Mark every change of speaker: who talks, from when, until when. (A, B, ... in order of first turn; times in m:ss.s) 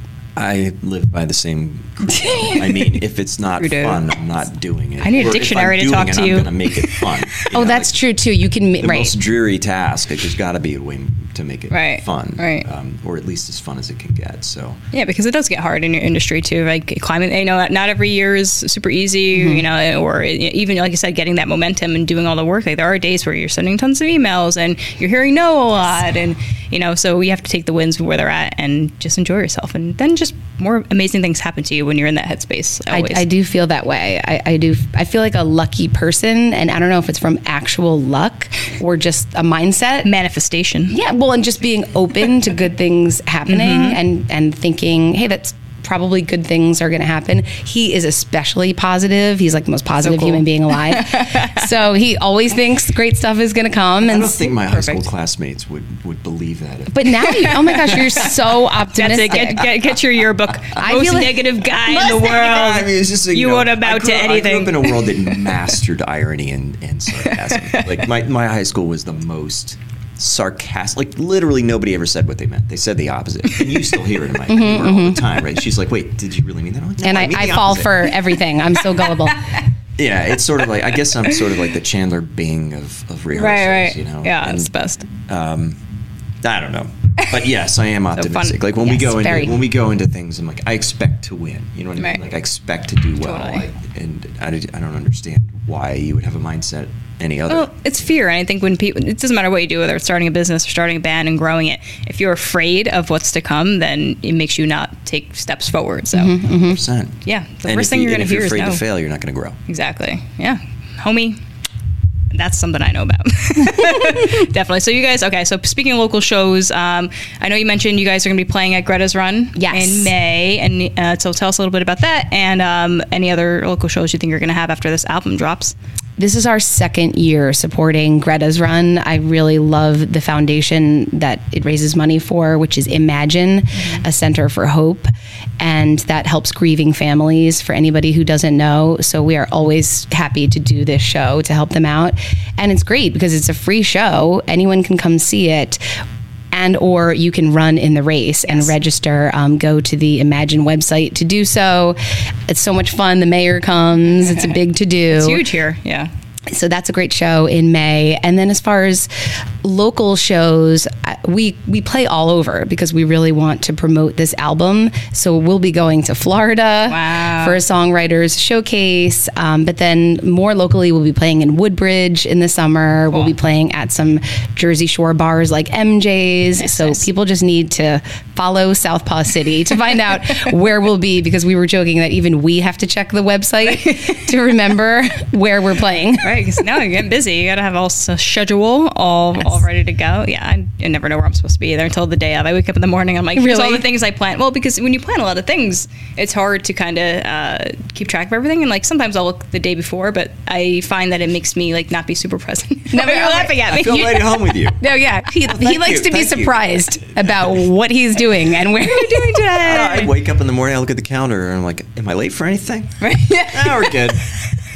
0:00.4-0:07.9 A
0:02.2-0:02.5 B
0:03.6-0:04.0 C
0:05.0-0:07.4 C
0:07.5-0:09.1 B
0:08.8-0:14.8 A
0:11.7-0:12.7 C
0:14.9-0:33.2 C
0:19.3-0:19.6 B
0:32.9-0:40.1 B
0:40.0-0:41.0 C
0:40.9-0:55.1 B
0:43.5-0:44.0 C
0:50.0-0:51.7 C
0:54.0-0:58.3 A
0:56.9-0:59.6 B
0:57.3-0:57.5 C
0:58.9-1:05.4 C
0:59.4-0:59.7 A
1:00.8-1:01.4 B
1:01.8-1:18.1 A
1:07.2-1:08.0 C
1:14.5-1:15.3 B
1:17.0-1:19.4 B
1:19.0-1:19.7 C
1:20.0-1:24.7 A
1:21.1-1:21.4 C
1:23.4-1:25.1 C
1:25.3-1:25.8 A
1:26.4-1:38.1 A
1:28.2-1:28.6 C
1:28.8-1:29.6 B
1:32.0-1:32.2 C
1:33.2-1:33.6 C
1:37.5-1:46.3 C
1:46.1-1:46.8 B
1:46.5-1:49.6 A
1:47.2-1:48.8 C
1:49.7-1:51.4 C
1:52.3-2:05.8 C
1:53.8-1:54.0 B
1:59.6-2:00.1 B
2:06.2-2:25.8 B
2:13.8-2:14.0 C
2:26.5-2:35.4 B
2:28.5-2:28.7 C
2:35.1-2:36.1 C
2:36.5-3:06.7 B
2:46.9-2:47.6 C
2:56.6-2:57.0 C
3:03.7-3:04.2 C
3:06.2-3:24.2 C
3:13.4-3:13.8 B
3:22.9-3:29.6 B
3:23.7-3:24.8 A
3:25.4-3:26.8 A
3:28.8-3:30.1 C
3:29.6-3:34.2 A
3:33.0-3:34.1 C